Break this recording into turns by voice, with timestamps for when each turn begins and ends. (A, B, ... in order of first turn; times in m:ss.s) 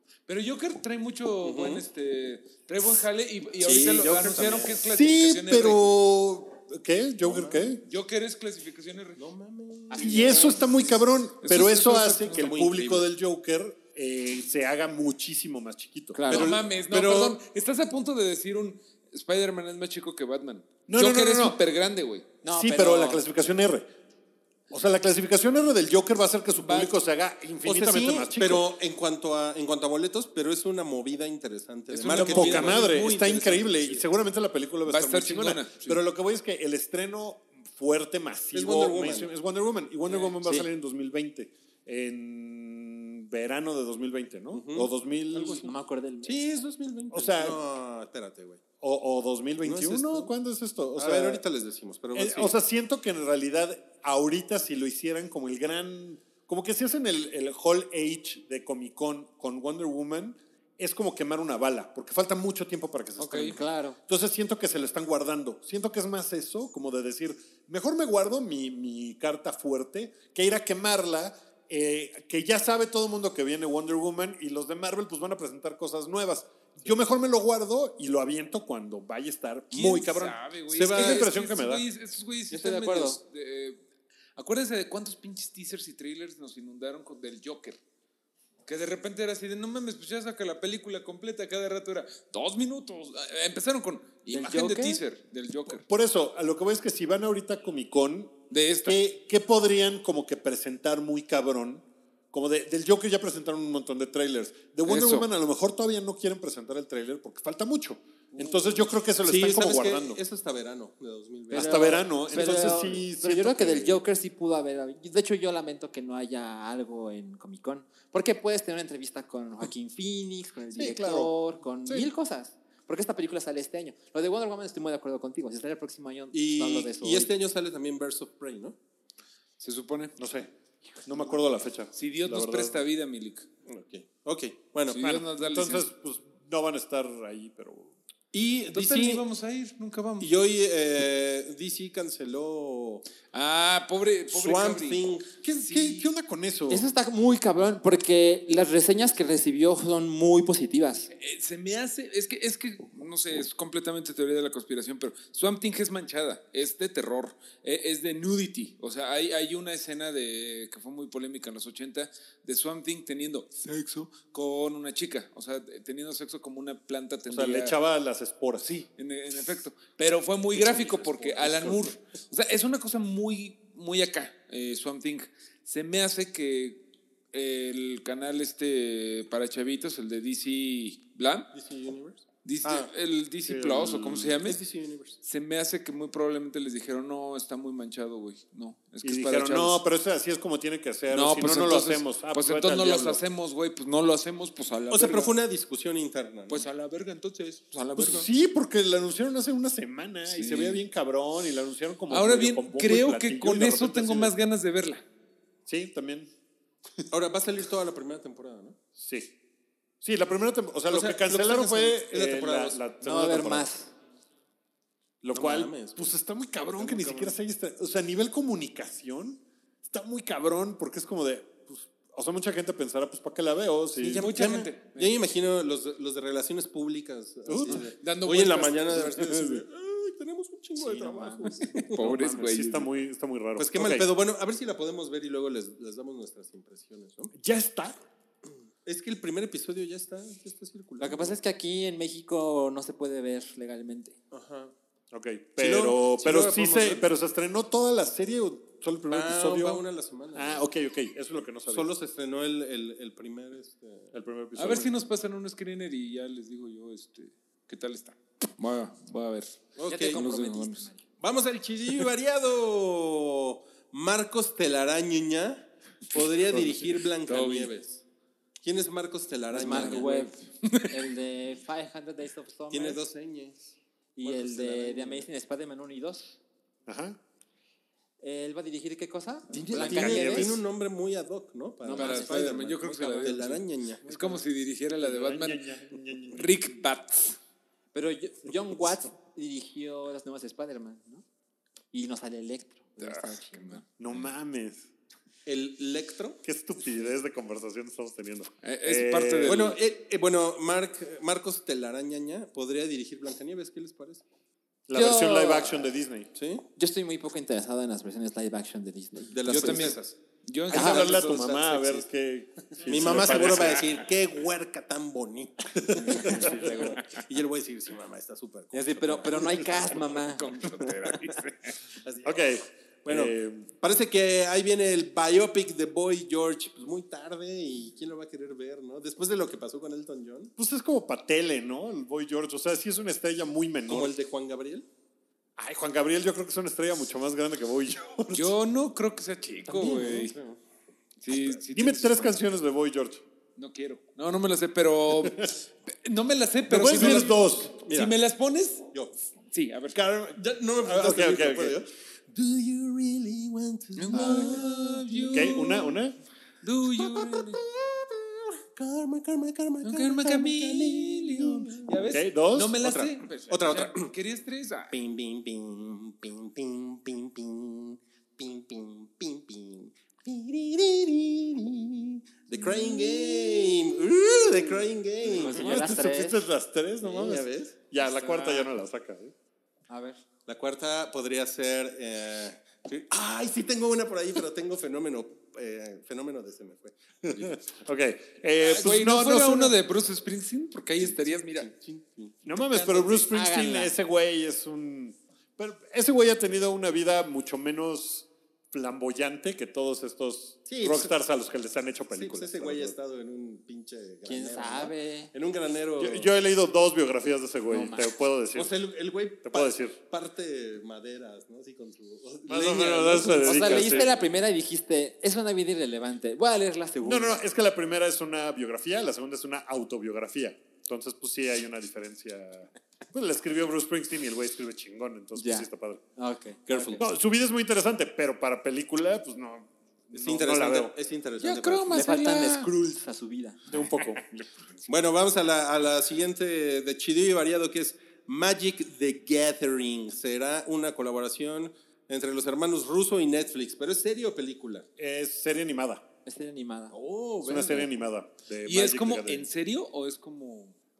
0:00.3-0:05.9 A
0:01.4-0:01.8 B
0:03.6-0:04.8 B
0:04.8-0:07.8 C
0:07.2-0:07.8 B
0:07.8-0:09.2 A
0:09.2-0:11.0 B
0:09.9-0:10.7 D
0:10.0-0:16.6 C
0:11.4-0:12.5 A
0:12.2-0:13.1 B
0:16.1-0:16.5 D
0:16.3-0:22.3 A
0:16.3-0:17.4 B
0:20.9-0:21.6 C
0:22.4-0:23.2 D
0:22.4-0:23.9 C
0:24.7-0:28.7 C
0:26.6-0:26.9 A
0:27.6-0:34.0 B
0:31.9-0:33.2 A
0:32.1-0:45.7 C
0:34.8-0:36.0 A
0:38.5-0:39.3 B
0:40.1-0:40.3 A
0:40.4-0:40.7 D
0:44.5-0:48.6 B
0:45.6-0:46.4 D
0:47.1-0:47.6 C
0:48.8-0:51.4 C
0:49.6-0:50.3 B
0:50.8-0:52.5 B
0:52.1-1:21.8 C
1:03.2-1:03.6 A
1:03.5-1:04.0 D
1:19.7-1:23.8 A
1:20.7-1:21.3 B
1:22.5-1:23.2 D
1:24.4-1:27.8 A
1:28.6-1:35.8 A
1:34.3-1:35.0 D
1:35.7-1:50.2 C
1:38.5-1:39.0 A
1:44.8-1:45.3 A
1:49.2-1:53.0 B
1:51.5-1:54.0 C
1:51.5-2:07.3 D
2:00.8-2:02.1 C
2:06.3-2:08.8 B
2:09.6-2:10.1 A
2:10.2-2:12.8 C
2:11.9-2:13.5 A
2:13.6-2:15.0 B
2:14.9-2:15.8 A
2:15.0-2:18.0 C
2:18.3-2:19.2 B
2:18.7-2:20.3 A
2:20.2-2:23.0 B
2:23.3-2:26.1 A
2:24.3-2:25.4 B
2:25.4-2:26.8 C
2:26.7-2:31.1 D
2:31.1-2:47.8 A
2:47.3-2:48.7 C
2:48.6-3:01.5 A
2:50.5-2:51.9 B
3:01.5-3:02.9 B
3:02.4-3:04.6 A
3:03.4-3:04.4 C
3:04.4-3:05.2 B
3:05.2-3:09.8 A
3:09.0-3:13.2 C
3:11.1-3:15.3 A
3:14.9-3:16.6 B
3:16.5-3:18.3 A
3:18.0-3:24.3 C
3:20.3-3:20.8 A
3:22.1-3:25.0 A
3:25.7-3:26.3 C
3:27.1-3:28.8 B
3:29.0-3:29.3 C
3:30.0-3:33.7 C
3:30.9-3:32.8 B
3:33.0-3:33.9 D
3:35.2-3:44.3 C
3:35.3-3:36.1 B
3:36.9-3:37.2 B
3:44.0-3:51.9 B
3:44.2-3:45.2 A
3:47.5-3:47.9 C
3:47.7-3:49.4 A
3:49.2-3:49.6 C
3:50.8-3:54.0 C
3:51.7-3:52.9 A
3:53.6-3:57.3 B
3:57.3-3:58.0 C
3:58.8-4:01.3 B
4:01.0-4:04.2 D
4:04.3-4:04.7 B
4:05.1-4:09.8 C
4:05.6-4:07.1 B
4:09.0-4:10.6 B
4:10.3-4:11.9 C
4:11.7-4:14.1 B
4:14.1-4:14.9 C
4:14.6-4:20.9 A
4:19.8-4:20.2 B
4:19.8-4:21.0 D
4:21.2-4:28.0 B
4:27.2-4:27.7 A
4:28.6-4:30.1 B
4:29.5-4:33.0 D
4:29.7-4:30.9 A
4:32.7-4:35.2 B
4:34.2-4:36.4 D
4:36.9-4:37.2 C
4:38.2-4:40.6 D
4:39.5-4:44.0 B
4:39.7-4:40.6 C
4:41.8-4:43.5 D
4:41.9-4:45.6 A
4:44.0-4:44.4 D
4:45.0-4:46.5 C
4:46.3-4:47.4 A
4:47.9-4:51.2 D
4:51.9-4:53.8 D
4:53.0-4:54.2 A
4:54.0-4:54.8 C
4:55.4-4:56.4 B
4:56.4-4:59.8 C
4:58.6-4:59.8 A
4:59.4-5:04.2 B
5:04.9-5:06.3 C
5:04.9-5:05.9 D
5:06.3-5:06.6 B
5:06.8-5:09.9 D
5:09.3-5:10.1 B
5:09.5-5:11.8 A
5:10.7-5:14.0 C
5:10.7-5:12.0 B
5:10.7-5:11.0 D
5:12.7-5:20.0 B
5:13.0-5:14.0 A
5:15.7-5:16.6 C
5:16.2-5:17.0 D
5:16.2-5:17.0 A
5:18.7-5:20.7 D
5:20.0-5:21.8 A
5:22.0-5:22.4 B
5:22.2-5:23.7 C
5:23.0-5:30.5 B
5:30.6-5:34.1 C
5:33.8-5:34.8 B
5:35.6-5:38.5 C
5:38.3-5:40.3 A
5:39.7-5:40.6 B
5:41.2-5:42.3 A
5:41.6-5:43.2 C
5:43.6-5:48.9 A
5:45.2-5:45.5 C
5:46.7-5:47.8 C
5:46.9-5:48.1 B
5:49.5-5:50.0 A
5:49.9-5:51.8 C
5:50.4-5:55.9 B
5:54.0-5:56.0 A
5:55.3-5:56.2 C
5:56.6-5:57.6 A
5:57.0-6:02.0 B
5:59.8-6:05.0 A
6:02.1-6:02.8 C
6:02.8-6:04.1 B
6:04.9-6:15.9 B
6:15.3-6:19.3 C
6:15.4-6:16.4 D
6:17.0-6:17.8 B
6:18.3-6:18.7 D
6:19.9-6:20.2 D
6:20.4-6:27.6 B
6:27.2-6:29.7 C
6:28.6-6:31.7 A
6:31.0-6:32.4 B
6:32.4-6:43.0 C
6:32.6-6:33.9 D
6:40.7-6:41.1 B
6:42.1-6:46.3 B
6:44.2-6:45.3 D
6:46.0-6:48.7 C
6:47.7-6:48.1 D
6:48.5-6:54.1 B
6:49.4-6:50.0 C
6:52.4-6:54.1 C
6:53.4-6:57.4 D
6:57.0-7:06.0 C
7:05.4-7:07.0 D
7:06.7-7:07.0 B
7:07.0-7:10.9 C
7:10.1-7:12.1 B
7:11.4-7:12.7 A
7:11.9-7:13.7 D
7:13.7-7:14.2 C
7:14.9-7:24.9 B
7:25.0-7:26.0 C
7:26.2-7:26.9 D
7:26.9-7:28.0 B
7:27.4-7:29.5 C
7:28.6-7:30.7 A